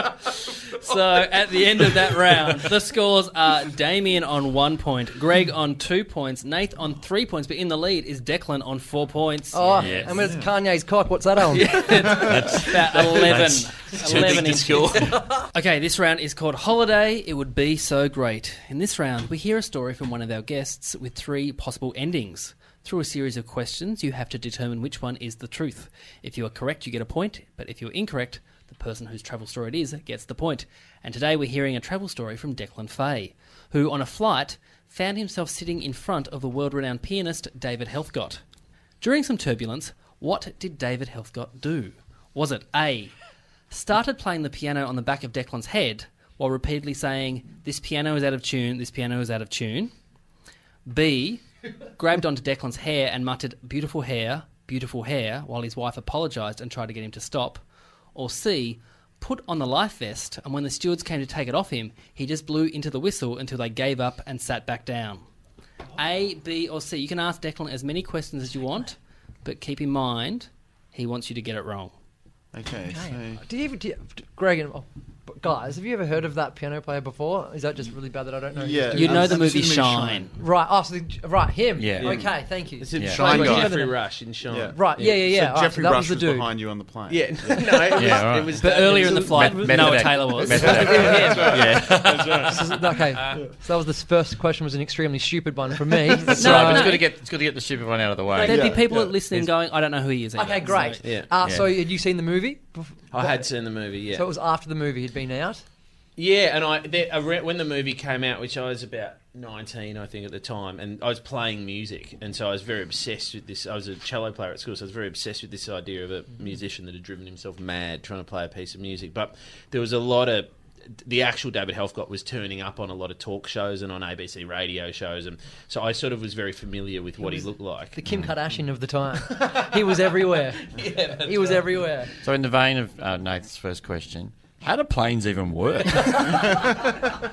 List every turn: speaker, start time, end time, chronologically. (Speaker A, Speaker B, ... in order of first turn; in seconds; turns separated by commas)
Speaker A: 0.7-10.1, Speaker B: 9.5-12.3, Speaker C: 9.8-10.3, Speaker A: 11.5-38.4, Speaker C: 11.8-14.6, Speaker D: 13.9-15.2, Speaker A: 39.0-43.1, Speaker A: 43.7-49.9, Speaker A: 50.9-51.4, Speaker A: 52.0-57.6, Speaker A: 58.1-65.2, Speaker A: 66.0-71.9, Speaker E: 72.5-73.4, Speaker B: 73.0-79.7, Speaker E: 78.6-80.3, Speaker A: 78.9-80.3, Speaker B: 80.4-84.0, Speaker C: 81.8-82.2, Speaker D: 82.0-82.2, Speaker D: 82.8-85.2, Speaker C: 83.0-83.2, Speaker E: 83.2-83.8, Speaker E: 84.5-87.8, Speaker B: 84.7-86.5, Speaker D: 87.1-89.4, Speaker C: 87.9-92.7, Speaker A: 88.6-91.5, Speaker E: 90.5-92.5, Speaker B: 90.6-91.7, Speaker B: 92.4-97.0, Speaker C: 96.3-98.8, Speaker A: 96.3-97.0, Speaker A: 98.3-101.0, Speaker E: 98.5-99.2, Speaker B: 100.4-103.5, Speaker D: 101.0-101.3, Speaker C: 101.4-101.7, Speaker D: 103.1-104.3, Speaker B: 104.1-105.6, Speaker D: 106.2-128.0, Speaker B: 127.2-132.1, Speaker D: 129.3-131.9, Speaker C: 132.2-136.7, Speaker B: 136.2-137.1